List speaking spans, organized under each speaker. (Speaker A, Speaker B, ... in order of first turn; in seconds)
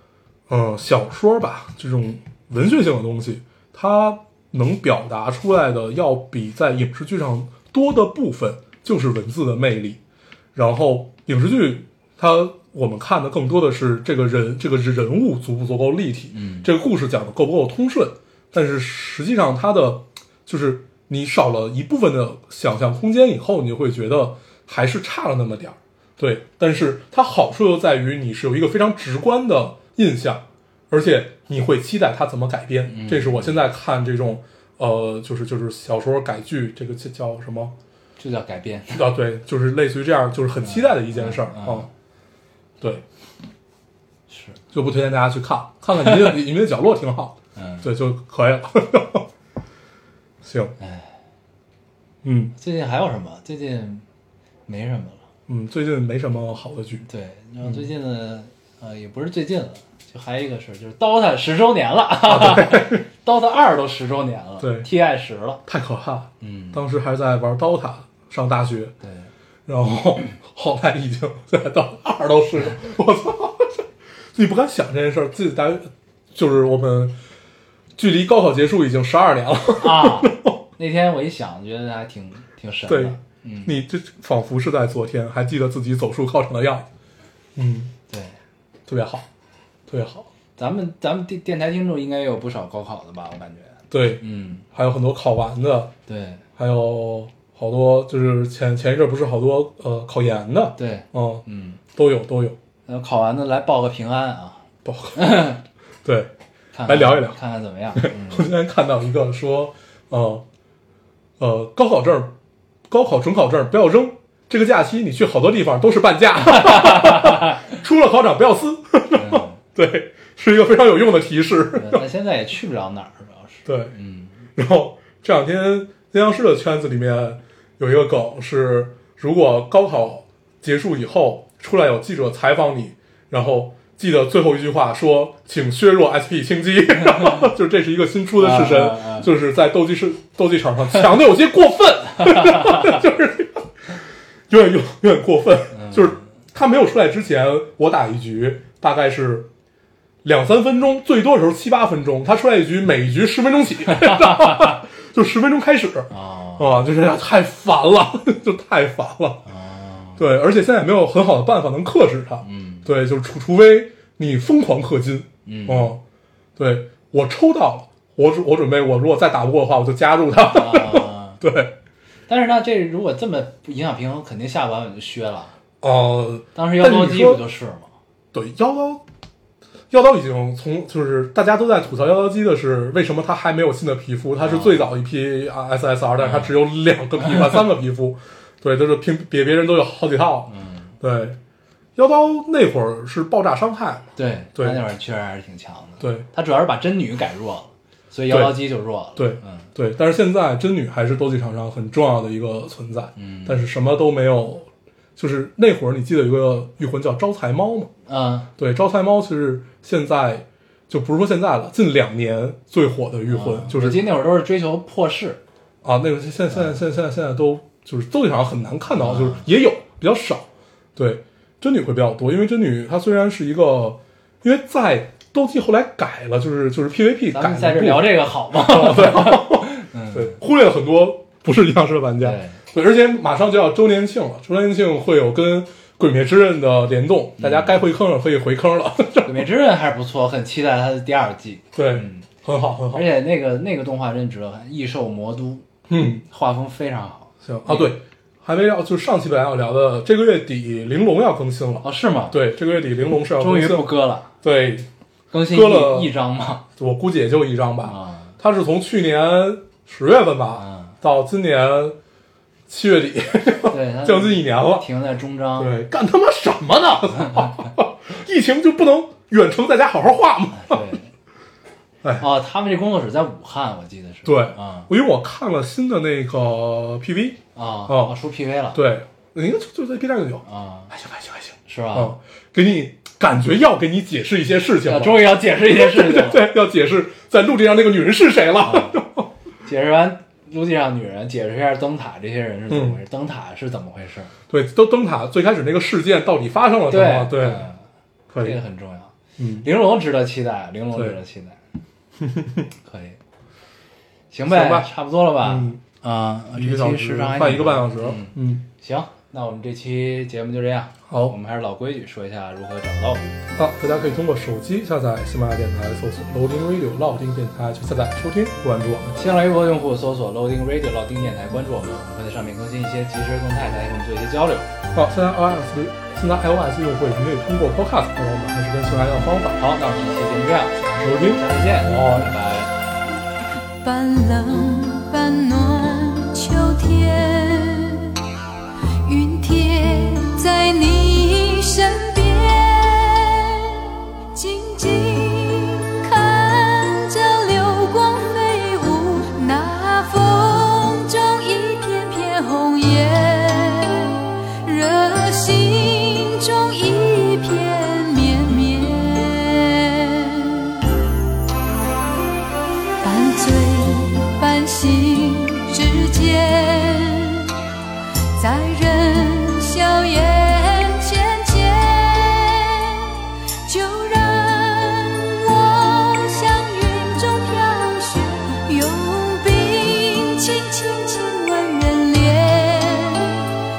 Speaker A: 0.5-10.0, 10.5-37.7, 38.9-41.9, 44.7-49.3, 50.4-50.8, 52.2-52.5, 55.5-57.0, 62.2-63.0, 64.6-64.9, 65.7-68.9, 69.7-77.1, 78.0-80.6, 82.9-86.9, 87.5-87.9, 88.9-89.2, 89.9-90.3, 93.9-95.9, 96.6-101.4, 101.9-102.6, 104.8-105.5, 106.0-106.3, 106.8-107.4, 108.0-110.4, 111.4-112.3, 112.9-122.0, 123.7-123.9, 124.5-149.5, 150.2-159.4, 160.2-166.0, 166.6-171.7, 175.8-177.4, 178.3-179.0, 179.9-191.4, 191.9-194.8, 196.0-196.2, 198.3-198.6, 199.1-207.9, 208.6-214.0, 215.8-239.4, 241.7-243.1, 245.9-246.2, 247.4-254.9, 255.4-256.1, 256.8-261.9, 262.7-264.9, 265.6-270.8, 274.2-278.1, 278.7-289.3, 292.7-293.0, 294.5-297.6, 298.3-298.6, 299.4-299.6, 302.2-302.7, 304.5-305.8, 306.5-308.6, 311.1-311.3, 313.6-319.1, 324.9-329.6, 330.9-332.3
Speaker B: 16.3-16.7, 32.9-33.6, 38.2-39.0, 40.6-41.9, 44.3-44.6, 46.0-46.3, 47.5-47.9, 50.8-51.1, 52.5-54.0, 54.7-55.2, 57.0-65.6, 66.4-66.8, 69.0-69.3, 79.8-83.8, 88.1-88.3, 90.6-94.6, 96.1-96.4, 100.8-101.8, 102.9-104.6, 105.1-105.6, 106.7-108.5, 116.4-117.7, 119.1-119.6, 121.7-124.4, 138.4-139.3, 142.3-142.9, 145.7-146.2, 153.9-154.7, 156.1-156.8, 159.4-160.2, 162.4-162.8, 165.4-165.9, 170.4-171.4, 172.3-175.5, 176.5-177.9, 184.4-184.8, 186.2-186.5, 190.5-190.9, 194.2-199.7, 203.2-203.6, 208.1-208.5, 213.3-215.4, 218.9-219.4, 227.3-230.4, 232.2-232.6, 237.4-237.8, 239.2-242.2, 242.9-245.7, 246.2-247.9, 251.8-252.4, 253.3-254.3, 255.3-256.6, 257.8-258.3, 260.6-260.9, 263.7-265.7, 270.5-271.1, 272.2-274.9, 277.5-278.8, 280.4-280.9, 281.6-282.1, 284.8-286.5, 288.6-289.0, 289.6-294.3, 296.9-297.8, 298.4-301.6, 302.8-303.2, 304.3-313.3, 319.1-324.7, 329.6-332.7
Speaker C: 333.8-338.2, 339.0-360.9, 363.0-367.6, 368.3-383.5